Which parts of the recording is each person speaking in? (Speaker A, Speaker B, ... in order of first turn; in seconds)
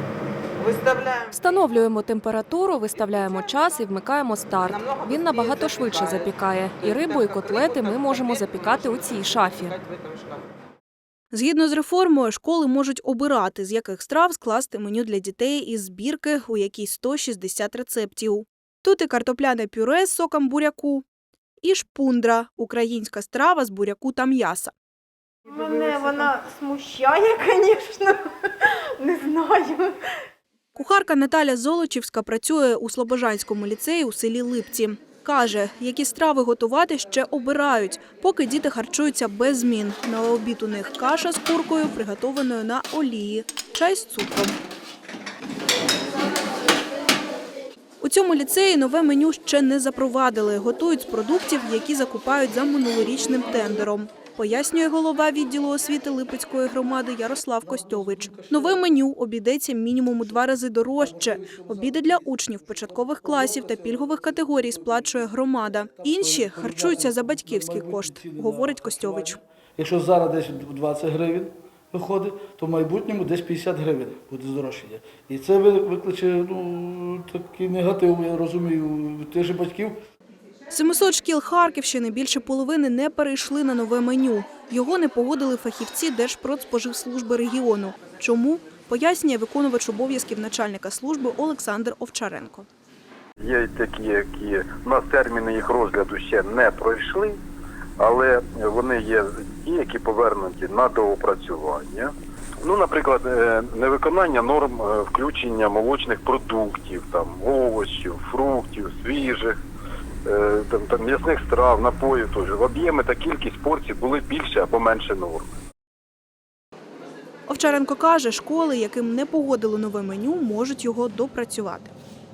Speaker A: 0.6-1.3, 4.7-10.5
Speaker B: 1.3-9.8
Speaker C: 11.3-21.1, 21.6-24.7, 30.8-44.6, 48.0-69.4, 80.7-92.7, 117.5-121.9
Speaker D: 25.5-30.0
Speaker E: 57.6-58.9, 61.0-80.0
Speaker F: 93.4-97.4, 98.0-109.6, 110.2-115.5